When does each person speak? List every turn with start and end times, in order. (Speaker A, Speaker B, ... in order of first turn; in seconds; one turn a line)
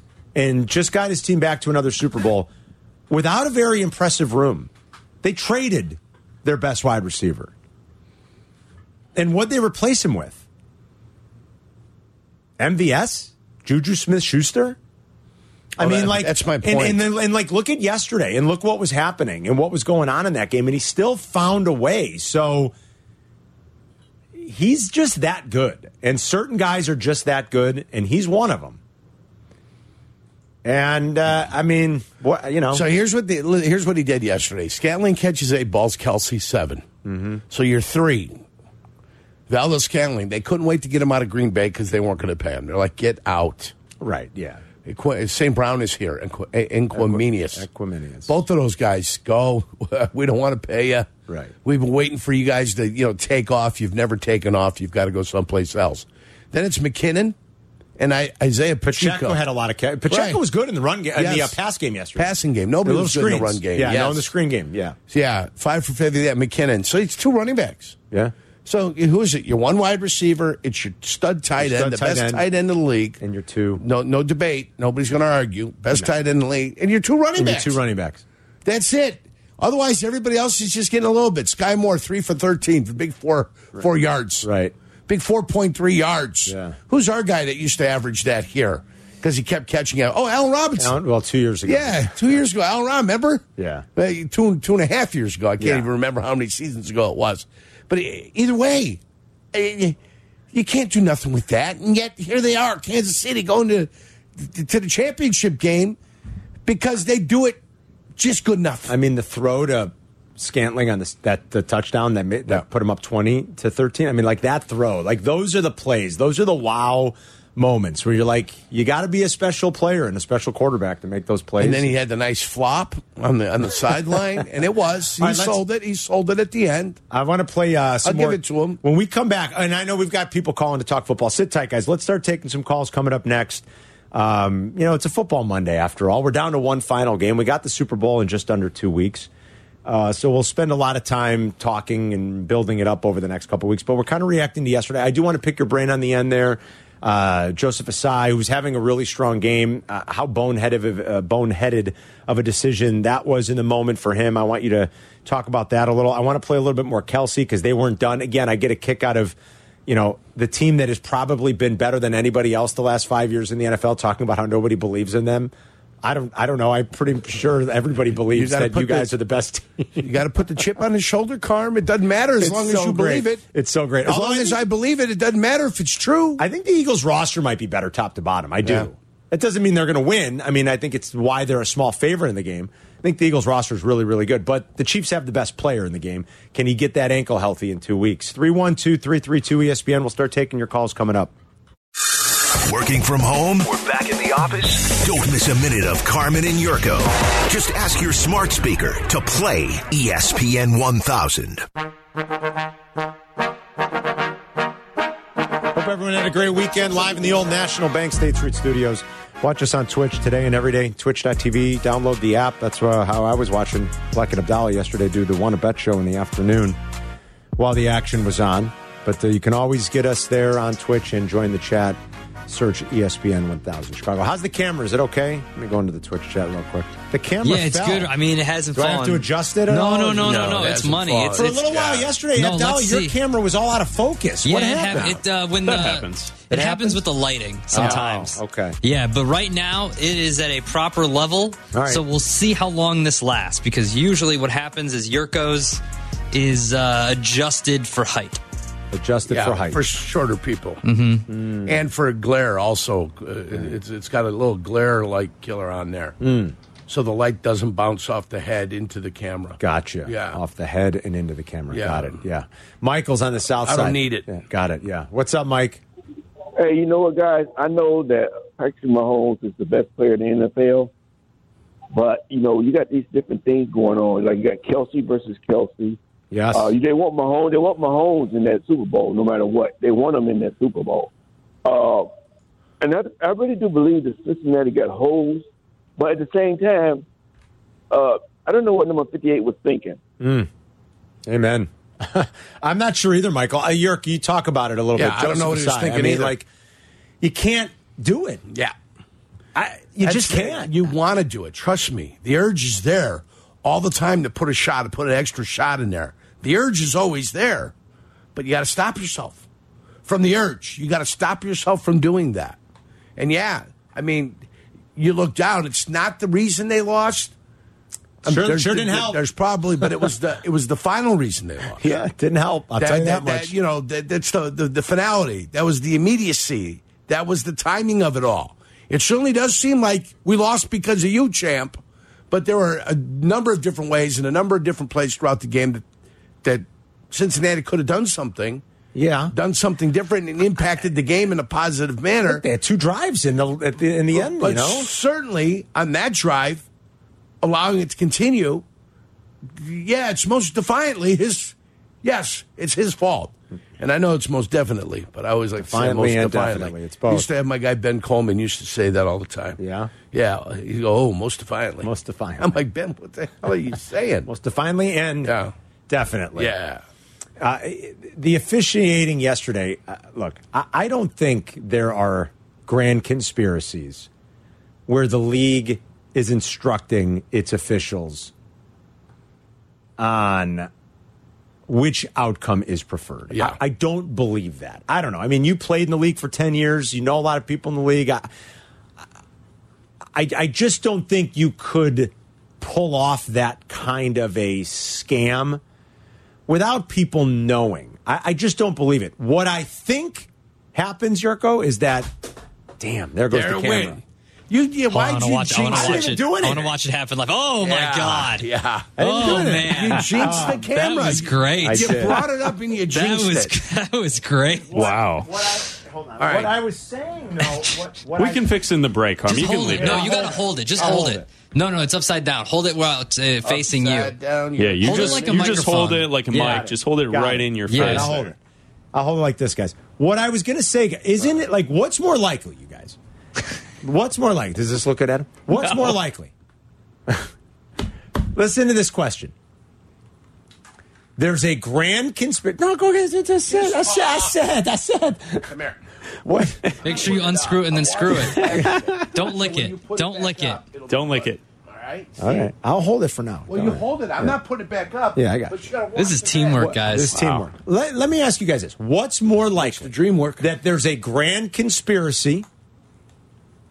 Speaker A: 0.3-2.5
Speaker A: 3.1-4.7
Speaker A: 5.2-7.5
Speaker A: 9.2-10.4
Speaker A: 12.6-14.8
Speaker A: 15.8-22.8
Speaker B: 15.8-17.0
Speaker A: 24.4-28.8
Speaker A: 30.6-32.9
Speaker B: 32.7-36.9
Speaker A: 37.0-37.4
Speaker B: 37.5-38.4
Speaker B: 39.5-43.7
Speaker A: 44.0-44.6
Speaker B: 44.9-47.7
Speaker A: 46.9-48.3
Speaker B: 48.3-51.1
Speaker A: 51.3-51.5
Speaker B: 51.6-57.4
Speaker B: 58.0-59.4
Speaker A: 58.9-62.3
Speaker B: 60.1-60.4
Speaker B: 61.2-61.6
Speaker B: 62.2-64.3
Speaker A: 62.8-65.0
Speaker B: 65.1-68.0
Speaker B: 68.7-73.2
Speaker A: 71.6-72.4
Speaker A: 73.2-73.8
Speaker B: 73.8-77.8
Speaker A: 77.4-78.2
Speaker B: 78.7-84.5
Speaker A: 84.4-84.7
Speaker B: 85.1-91.0
Speaker A: 86.5-86.8
Speaker A: 90.8-92.4
Speaker B: 91.7-99.0
Speaker A: 93.6-93.9
Speaker A: 95.6-95.9
Speaker B: 99.5-100.0
Speaker B: 100.5-106.0
Speaker B: 106.7-107.6
Speaker B: 108.2-109.0
Speaker A: 108.9-121.9
Speaker B: 121.6-127.0
Speaker A: 125.2-125.6
Speaker A: 127.1-139.3
Speaker B: 128.0-128.8
Speaker A: 139.8-159.4
Speaker A: 159.9-170.1
Speaker B: 168.3-169.1
Speaker B: 170.0-173.4
Speaker A: 172.4-174.6
Speaker B: 174.1-176.4
Speaker A: 176.4-191.3
Speaker B: 178.6-178.9
Speaker C: 192.5-201.7
Speaker A: 205.7-216.8
Speaker A: 217.6-228.1
Speaker D: 227.4-231.7
Speaker A: 228.7-230.6
Speaker B: 230.2-232.1
Speaker A: 231.3-235.2
Speaker D: 232.3-233.2
Speaker D: 234.4-248.4
Speaker E: 235.7-236.3
Speaker A: 236.5-237.0
Speaker A: 237.7-238.8
Speaker A: 241.7-242.0
Speaker A: 248.9-249.8
Speaker B: 249.3-250.8
Speaker D: 250.8-251.3
Speaker A: 251.3-251.8
Speaker B: 251.7-256.2
Speaker A: 256.2-256.6
Speaker B: 256.9-260.4
Speaker A: 259.6-265.8
Speaker B: 261.7-262.2
Speaker B: 263.6-264.3
Speaker F: 266.6-270.9
Speaker F: 271.9-276.0
Speaker A: 276.3-276.7
Speaker F: 276.5-281.1
Speaker F: 281.6-282.1
Speaker F: 282.8-285.5
Speaker F: 286.0-287.0
Speaker F: 287.9-290.0
Speaker A: 290.2-290.5
Speaker A: 291.3-296.5
Speaker B: 295.0-296.4
Speaker A: 297.2-298.4
Speaker B: 298.5-298.7
Speaker A: 299.6-300.7
Speaker B: 300.0-307.7
Speaker B: 308.4-309.4
Speaker B: 310.1-312.6
Speaker B: 313.2-314.4
Speaker B: 315.0-317.3
Speaker A: 318.2-319.2
Speaker B: 318.2-322.0
Speaker A: 319.8-320.1
Speaker A: 321.8-323.5
Speaker B: 322.8-331.8
Speaker B: 332.3-335.8
Speaker B: 336.4-338.6
Speaker A: 338.9-339.3
Speaker B: 339.3-342.4
Speaker A: 342.3-344.9
Speaker B: 344.1-346.7
Speaker B: 347.4-348.6
Speaker B: 349.6-359.6
Speaker A: 355.6-357.3
Speaker A: 359.6-359.9
Speaker B: 360.1-364.3
Speaker A: 361.8-362.6
Speaker A: 364.3-365.4
Speaker B: 365.2-365.5
Speaker A: 365.9-366.5
Speaker B: 366.4-366.8
Speaker A: 367.4-374.1
Speaker A: 374.9-378.3
Speaker A: 380.0-380.7
Speaker A: 381.7-388.3
Speaker B: 383.3-383.6
Speaker A: 390.1-395.6
Speaker A: 396.5-402.1
Speaker A: 402.8-404.0
Speaker B: 403.3-406.1
Speaker D: 404.9-414.8
Speaker A: 405.7-406.7
Speaker B: 407.6-413.6
Speaker A: 409.0-411.1
Speaker A: 411.6-412.2
Speaker A: 414.5-418.5
Speaker E: 414.8-415.3
Speaker B: 416.2-416.6
Speaker E: 418.2-420.0
Speaker D: 419.3-424.1
Speaker A: 419.7-421.3
Speaker B: 423.4-425.8
Speaker E: 424.6-428.1
Speaker D: 424.8-426.1
Speaker A: 426.3-428.4
Speaker D: 427.7-428.1
Speaker A: 428.9-433.0
Speaker A: 433.8-436.3
Speaker A: 438.2-439.3
Speaker A: 441.2-445.5
Speaker B: 443.5-444.4
Speaker B: 445.4-445.8
Speaker A: 446.2-446.9
Speaker B: 446.7-452.5
Speaker D: 446.8-450.6
Speaker A: 448.4-449.1
Speaker E: 450.9-451.4
Speaker A: 452.2-454.4
Speaker B: 453.5-456.8
Speaker A: 455.1-455.7
Speaker D: 456.0-457.2
Speaker A: 456.6-462.5
Speaker B: 459.6-460.5